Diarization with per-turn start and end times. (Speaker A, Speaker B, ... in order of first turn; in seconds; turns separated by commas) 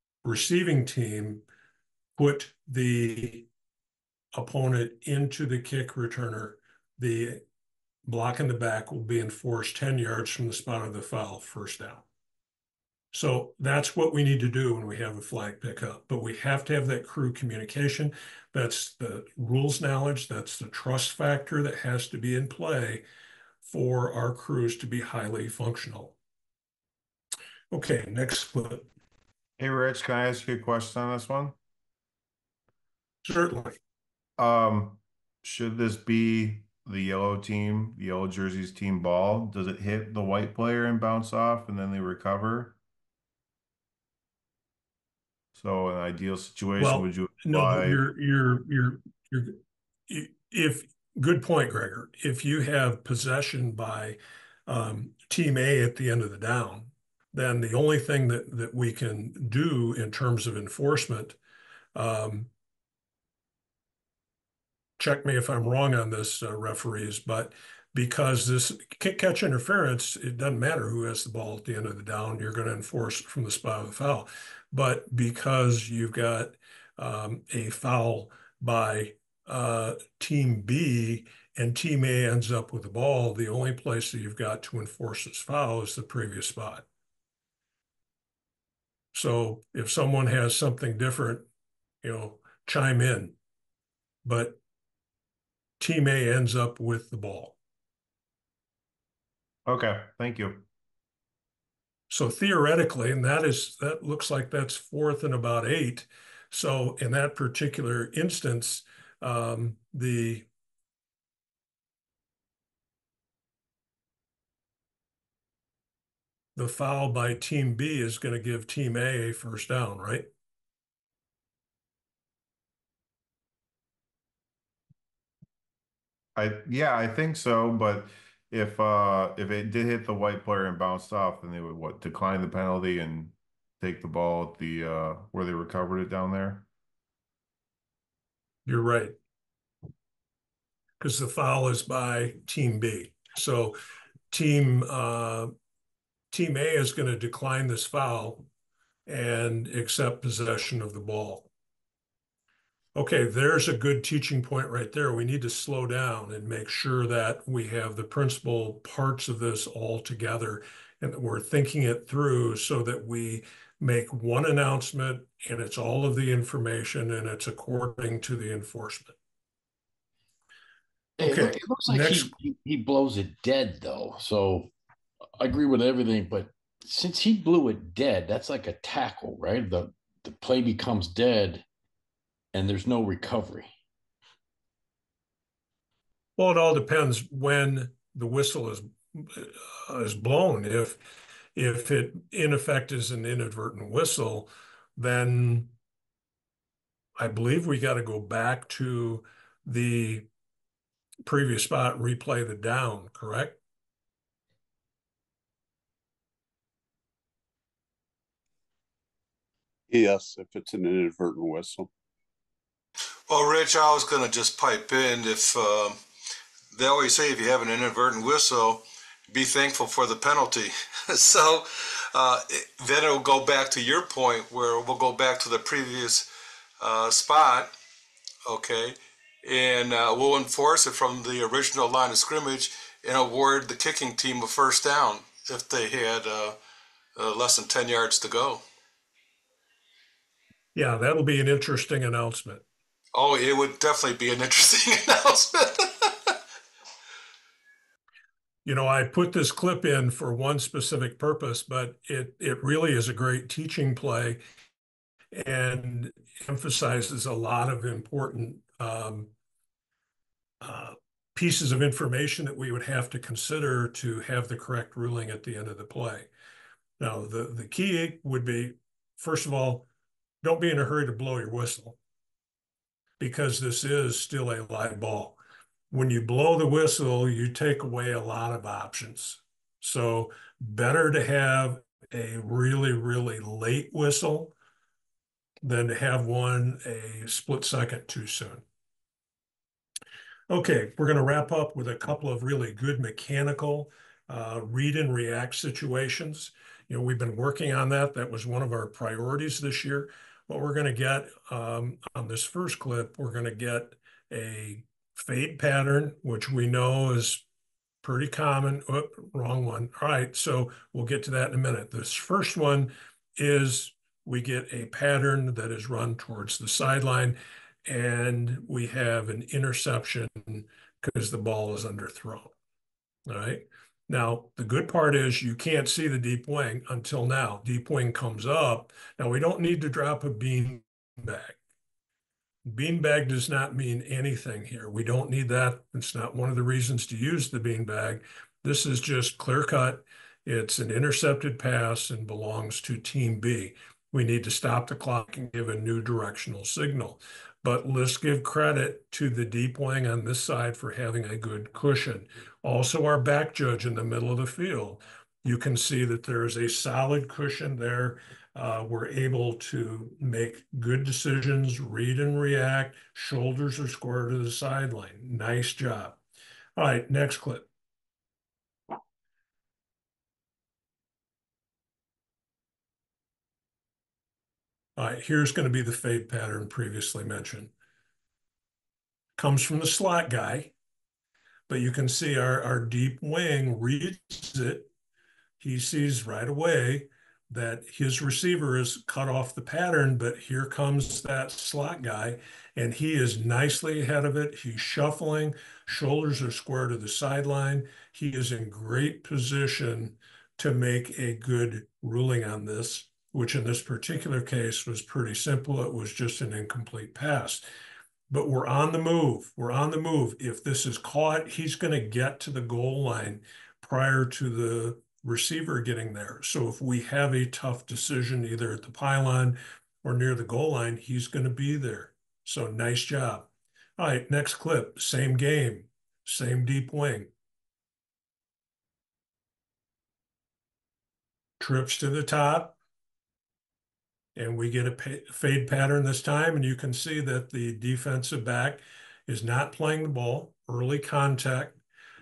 Speaker A: 0.2-1.4, Speaker A: 2.2-3.5, Speaker A: 4.3-7.4, Speaker A: 8.1-12.1, Speaker A: 13.1-23.0, Speaker A: 23.6-26.2, Speaker A: 27.7-28.9, Speaker B: 29.6-31.6, Speaker A: 33.2-33.8, Speaker B: 34.4-42.8, Speaker B: 45.5-48.0, Speaker A: 46.8-61.4, Speaker A: 62.0-62.5, Speaker A: 65.0-86.9, Speaker A: 89.1-91.5, Speaker A: 92.0-93.4, Speaker A: 94.2-94.6, Speaker A: 95.8-97.6, Speaker B: 99.7-100.7, Speaker A: 102.1-110.5, Speaker A: 116.5-120.3, Speaker B: 126.4-136.7, Speaker A: 138.7-139.2, Speaker A: 141.0-143.8, Speaker A: 144.3-145.5, Speaker A: 146.3-148.5, Speaker A: 149.1-151.5, Speaker A: 152.9-169.2, Speaker C: 171.2-174.7, Speaker A: 171.2-172.3, Speaker C: 175.4-181.6, Speaker C: 182.5-183.7, Speaker A: 186.4-191.0, Speaker A: 191.6-195.7, Speaker A: 197.2-200.3, Speaker A: 201.2-203.6, Speaker D: 209.9-211.9, Speaker E: 213.3-216.0, Speaker E: 216.7-226.3, Speaker E: 226.8-227.7, Speaker E: 228.4-236.6, Speaker E: 237.2-238.6, Speaker A: 240.8-242.6, Speaker E: 243.1-246.3, Speaker A: 248.6-254.4, Speaker A: 255.3-259.3, Speaker A: 260.6-266.3, Speaker A: 267.0-269.9, Speaker A: 270.4-272.0, Speaker A: 273.2-275.4, Speaker A: 275.9-284.5, Speaker A: 285.6-288.6, Speaker A: 290.5-307.4, Speaker A: 308.0-322.5, Speaker A: 323.3-331.6, Speaker A: 332.7-366.2, Speaker A: 366.8-367.7, Speaker A: 375.0-377.7, Speaker A: 379.4-380.7, Speaker A: 381.7-384.9, Speaker A: 385.6-407.6, Speaker A: 408.3-427.3, Speaker A: 431.6-432.8, Speaker A: 434.4-441.8